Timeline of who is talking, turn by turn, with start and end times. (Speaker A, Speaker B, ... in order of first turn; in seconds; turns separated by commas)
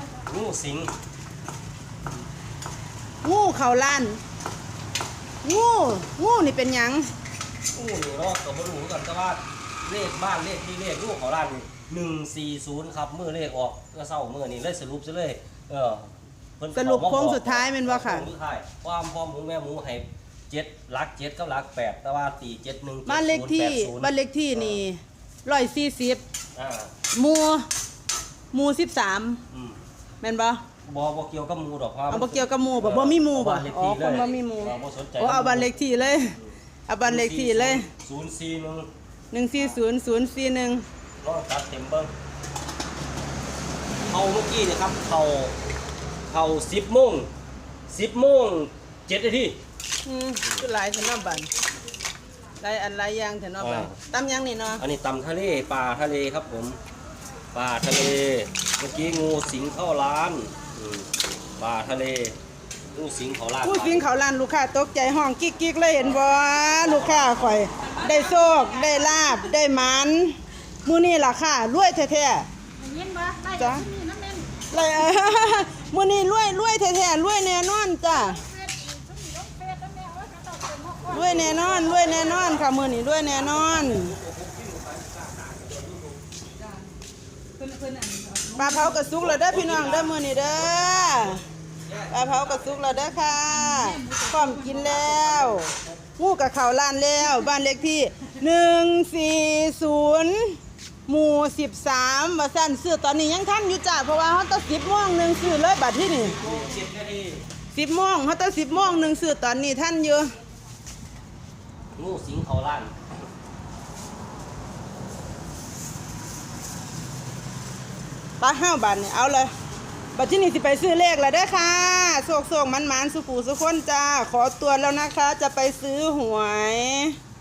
Speaker A: 0.2-0.9, Speaker B: 3.2-4.2, Speaker B: 5.4-7.1, Speaker A: 7.7-24.8, Speaker B: 16.7-18.3, Speaker B: 23.1-26.2, Speaker A: 26.5-26.9, Speaker B: 27.1-27.7, Speaker B: 28.5-29.4, Speaker A: 29.5-29.8, Speaker B: 30.2-30.6, Speaker A: 30.8-38.9, Speaker B: 32.1-37.9, Speaker B: 39.3-40.8, Speaker A: 41.2-42.1, Speaker A: 44.0-45.5, Speaker A: 46.3-47.3, Speaker A: 47.9-49.6, Speaker B: 50.0-51.5, Speaker B: 52.6-54.8, Speaker A: 53.6-54.0, Speaker A: 54.8-56.8, Speaker A: 57.5-62.4, Speaker A: 62.9-64.0, Speaker B: 63.6-72.5, Speaker A: 66.8-67.3, Speaker C: 72.8-74.6, Speaker B: 73.5-73.9, Speaker B: 74.7-78.4, Speaker C: 78.3-82.0, Speaker B: 81.1-84.1, Speaker A: 81.1-82.6, Speaker A: 83.3-86.2, Speaker C: 87.6-89.1, Speaker B: 88.5-91.4, Speaker A: 89.1-93.0, Speaker B: 92.1-106.4, Speaker C: 93.3-95.0, Speaker A: 94.8-96.0, Speaker A: 106.3-107.4, Speaker B: 107.7-110.3, Speaker A: 111.9-113.0, Speaker B: 118.4-119.5, Speaker B: 120.1-127.2